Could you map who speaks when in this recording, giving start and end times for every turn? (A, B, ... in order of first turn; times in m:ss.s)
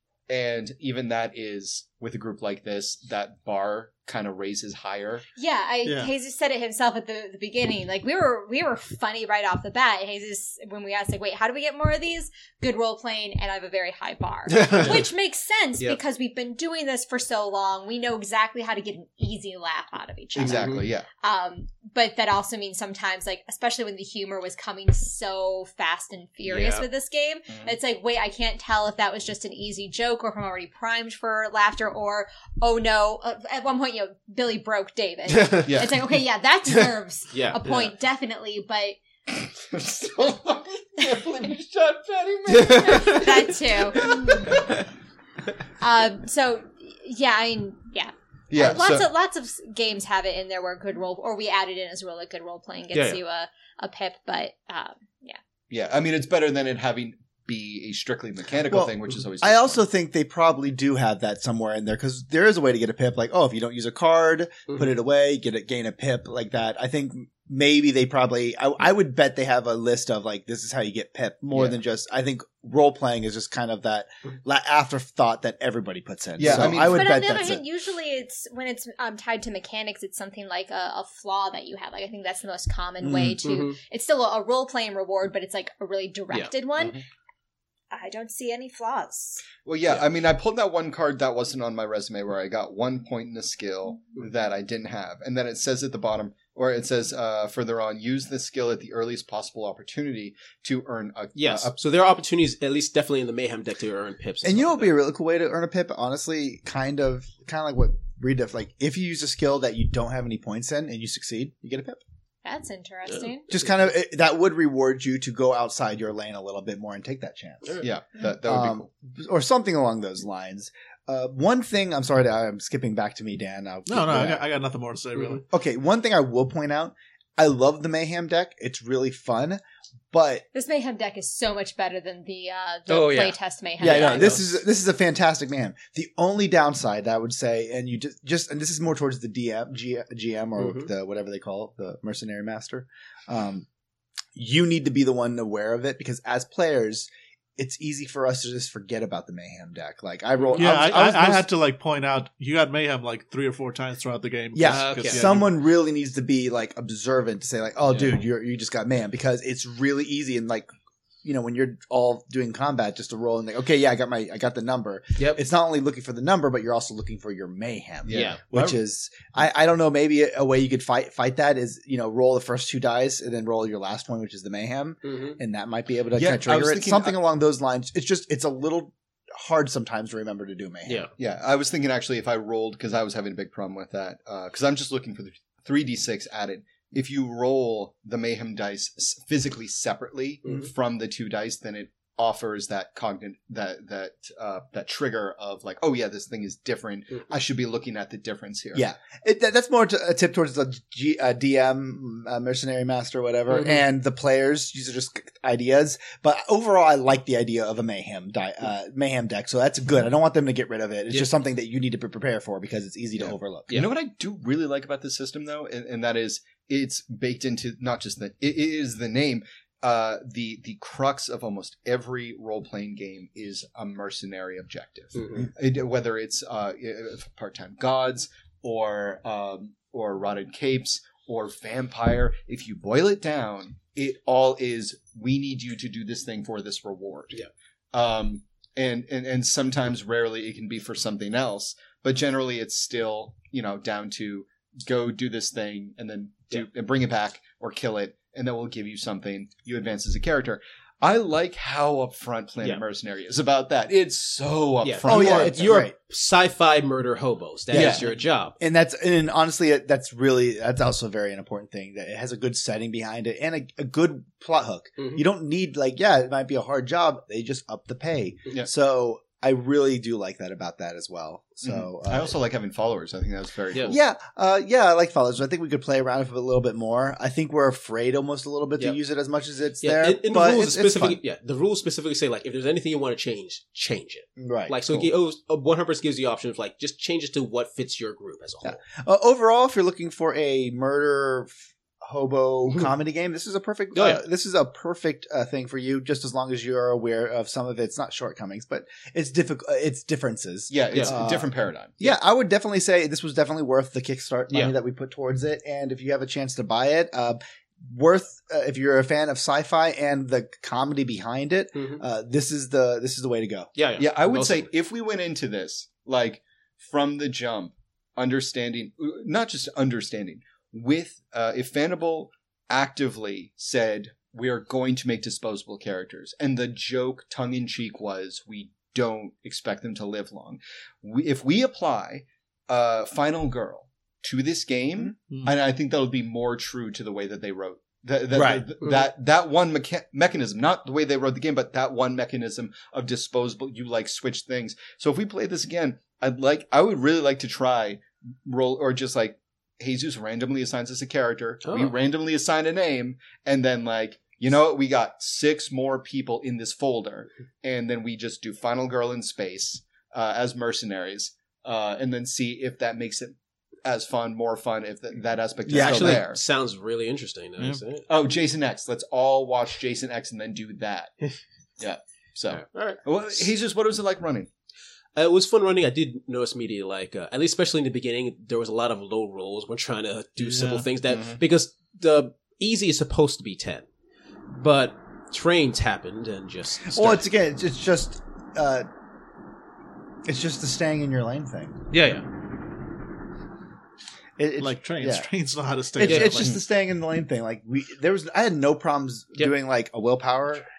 0:00.3-0:05.2 A
0:05.4-0:39.0 B
0:05.8-0:06.1 C
0:14.5-0:15.1 D
0:20.4-0:21.1 A
0:20.4-0:20.8 D
0:26.5-0:26.8 D
0:35.3-0:35.7 D
0:35.7-0:36.0 A
0:37.3-0:37.9 D
0:39.4-0:44.8 A
0:42.6-0:44.5 B
0:45.8-0:55.4 B
0:48.5-0:49.1 A
0:52.9-0:53.2 D
0:55.7-0:59.8 A
0:58.7-1:17.6 E
1:11.5-1:11.8 A
1:16.4-1:17.1 A
1:16.7-1:27.0 B
1:23.0-1:23.4 E
1:23.4-1:23.8 D
1:27.9-1:29.4 B
1:29.6-1:41.7 A
1:41.4-1:44.9 D
1:44.4-1:52.0 E
1:52.4-1:53.5 B
1:53.5-1:57.8 E
1:57.8-1:58.9 A
1:58.4-2:04.4 E
2:03.9-2:05.4 C
2:05.5-2:09.6 E
2:10.1-2:10.4 E
2:10.5-2:14.4 B
2:12.9-2:14.4 D
2:13.8-2:23.7 E
2:20.6-2:20.9 D
2:24.4-2:31.5 E
2:30.5-2:35.5 C
2:34.5-2:40.7 E
2:34.6-2:35.3 D
2:37.9-2:38.2 D
2:41.2-3:01.1 E
2:48.0-2:48.8 A
2:48.1-2:48.4 D
2:55.0-2:55.4 D
2:56.2-2:57.2 A
3:00.9-3:01.1 D
3:01.2-3:18.8 A
3:10.4-3:10.7 D
3:18.7-3:33.8 E
3:23.5-3:23.8 D
3:33.2-4:15.9 A
3:45.2-3:45.5 D
4:14.8-4:18.6 D
4:15.0-4:15.9 E
4:17.7-4:32.4 E
4:17.7-4:18.0 A
4:25.0-4:25.2 D
4:31.6-4:34.0 A
4:33.8-4:41.2 E
4:39.8-4:48.8 D
4:44.4-4:45.1 E
4:48.6-5:13.7 E
4:54.0-4:54.2 D
5:00.7-5:02.0 A
5:00.9-5:01.2 D
5:11.8-5:12.0 D
5:13.8-5:14.7 D
5:14.0-6:06.4 A
5:35.3-5:35.6 C
5:38.3-5:38.7 E
5:51.6-5:51.9 D
6:05.7-6:06.2 E
6:05.7-6:08.1 D
6:08.1-6:11.1 A
6:11.8-6:14.5 A
6:12.5-6:13.5 D
6:15.2-6:23.9 D
6:20.4-6:20.9 C
6:21.1-6:21.4 A
6:24.5-6:27.3 D
6:26.9-6:28.9 E
6:30.2-6:31.8 E
6:31.9-6:32.3 D
6:34.4-6:35.3 E
6:34.6-6:36.6 C
6:36.0-6:40.6 E
6:36.0-6:36.4 D